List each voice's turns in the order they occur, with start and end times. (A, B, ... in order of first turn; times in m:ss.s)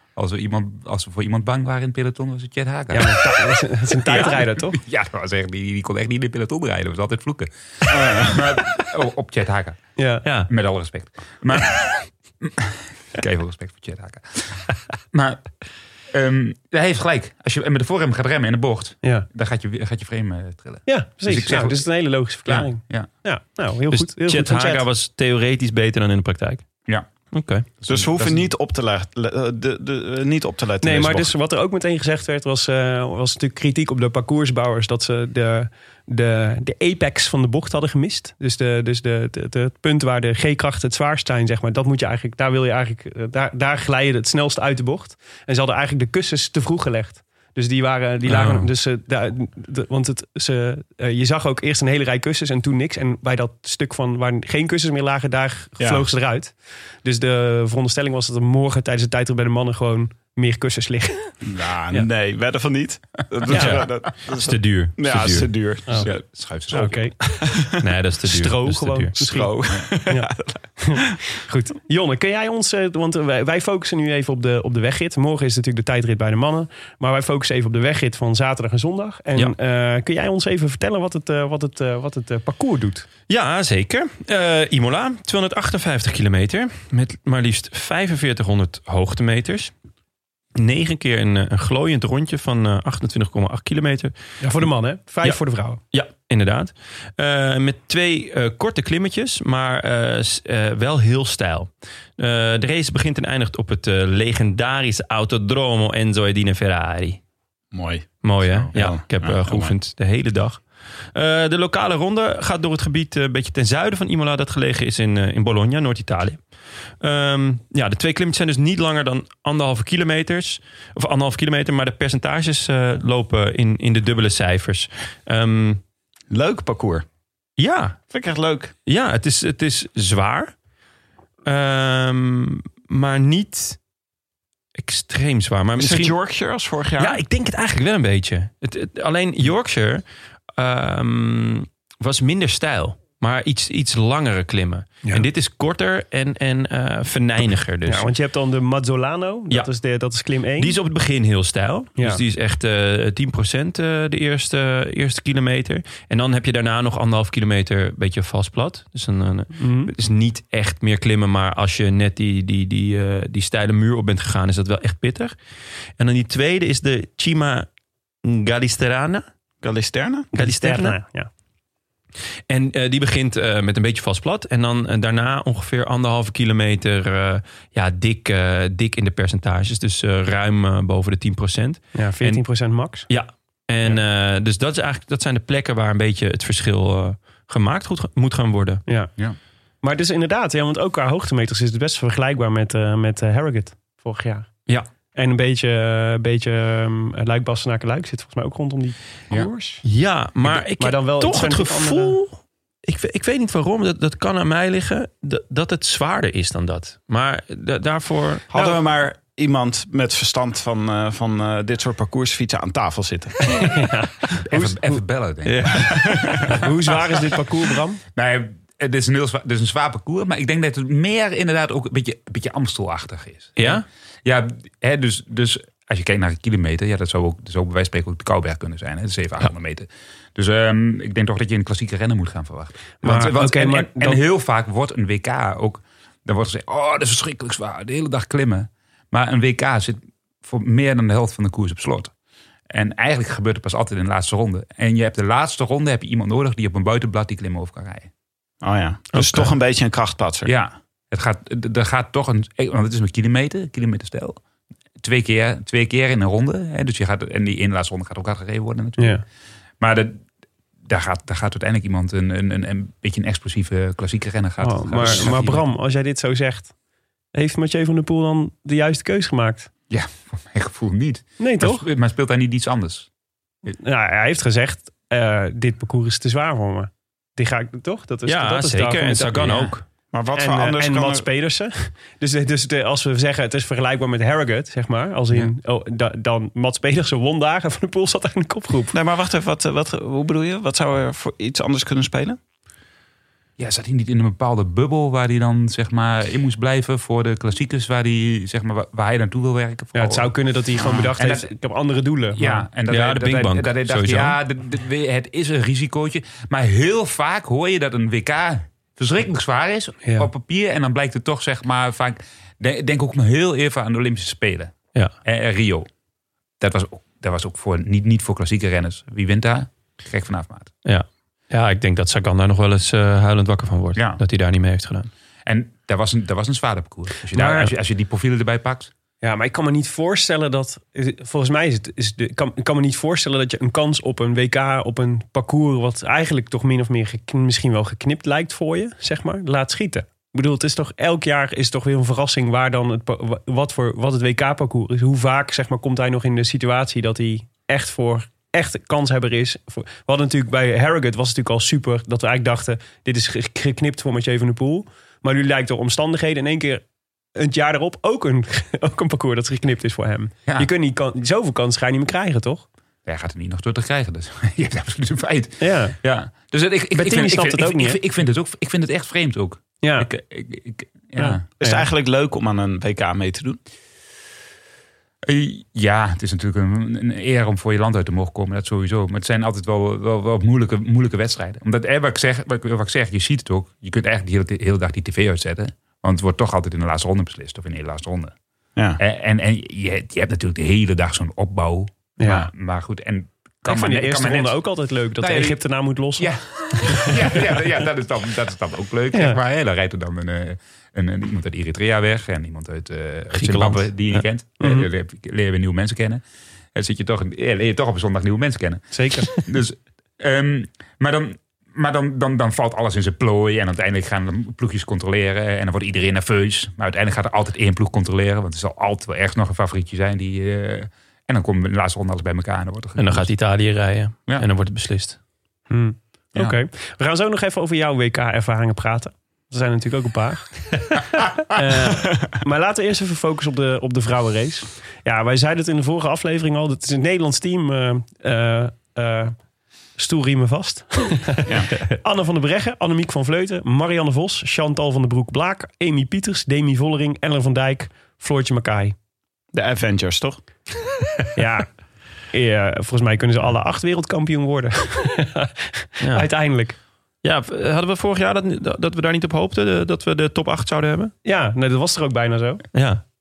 0:00.2-0:03.4 A
0:02.9-0:04.8 B
0:04.0-0:09.8 A
0:07.9-0:08.3 C
0:10.0-0:10.3 B
0:10.2-0:10.5 D
0:10.5-0:23.1 A
0:20.9-0:24.8 B
0:23.9-0:26.6 D
0:27.3-0:27.7 D
0:27.8-0:28.5 A
0:27.9-0:31.3 C
0:30.8-1:01.3 B
0:48.3-0:48.7 D
0:55.8-0:56.1 C
1:01.4-1:06.2 C
1:03.5-1:05.6 D
1:03.5-1:03.9 B
1:06.0-1:07.1 A
1:06.7-1:07.4 B
1:07.5-1:07.8 C
1:07.8-1:09.2 D
1:08.2-1:23.1 B
1:09.2-1:10.8 C
1:23.3-1:29.7 D
1:30.6-1:34.1 D
1:34.4-1:35.8 B
1:35.9-1:47.2 D
1:47.7-1:49.8 C
1:48.2-1:56.4 D
1:57.0-2:05.8 D
2:06.3-2:07.1 C
2:07.6-2:08.0 D
2:08.1-2:08.7 C
2:08.9-2:10.5 D
2:11.5-2:13.8 D
2:14.8-2:16.2 D
2:15.8-2:17.2 C
2:17.0-2:20.0 D
2:20.6-2:28.1 D
2:27.9-2:30.7 B
2:30.6-2:45.4 D
2:39.6-2:39.9 B
2:46.0-2:47.7 D
2:48.2-2:49.3 D
2:49.6-2:50.3 C
2:50.3-2:51.3 B
2:50.3-2:51.0 D
2:52.5-3:08.8 D
3:02.0-3:03.1 B
3:08.9-3:09.1 B
3:09.8-3:14.5 B
3:15.1-3:19.8 B
3:19.8-3:28.5 D
3:20.4-3:22.2 B
3:28.5-3:33.4 C
3:28.5-3:28.8 B
3:33.6-3:35.0 B
3:34.4-3:36.6 A
3:35.5-3:36.4 D
3:35.8-3:36.3 C
3:36.5-3:38.0 B
3:38.2-3:43.7 A
3:43.6-3:43.8 D
3:44.2-4:02.1 A
3:53.0-3:54.2 B
4:02.7-4:08.1 A
4:08.6-4:10.5 C
4:09.1-4:09.5 D
4:10.4-4:14.4 A
4:15.0-4:19.2 A
4:19.0-4:19.2 B
4:19.8-4:20.2 A
4:20.8-4:25.7 A
4:24.6-4:26.7 B
4:27.3-4:29.7 B
4:29.9-4:33.1 A
4:31.4-4:31.8 B
4:33.7-4:39.8 B
4:38.3-4:39.8 D
4:40.1-4:41.3 C
4:40.3-4:49.0 B
4:48.9-4:52.4 C
4:53.6-5:00.3 A
5:00.0-5:02.7 B
5:01.2-5:01.5 A
5:02.4-5:15.9 A
5:02.9-5:04.4 D
5:16.6-5:20.7 A
5:20.8-5:25.1 D
5:24.0-5:24.2 A
5:25.5-5:28.9 A
5:27.3-5:27.7 B
5:29.2-5:56.8 B
5:57.4-6:02.6 B
6:03.1-6:11.4 A
6:05.6-6:06.0 B
6:06.9-6:08.0 B
6:09.8-6:10.1 B
6:11.2-6:11.9 B
6:11.6-6:13.6 C
6:15.3-6:28.4 A
6:29.0-6:34.6 A
6:32.2-6:32.5 B
6:33.6-6:37.4 B
6:35.2-6:35.6 A
6:36.2-6:46.2 A
6:39.1-6:39.4 B
6:43.3-6:44.3 D
6:44.6-6:44.9 B
6:46.8-7:03.3 A
6:48.9-6:49.3 B
7:03.0-7:05.2 D
7:05.7-7:19.3 B
7:20.0-7:29.0 B
7:21.4-7:21.7 C
7:29.5-7:30.4 C
7:31.4-7:31.7 B
7:32.3-7:36.8 B
7:36.0-7:36.3 D
7:37.2-7:41.1 D
7:41.2-7:42.8 B
7:42.7-7:43.0 D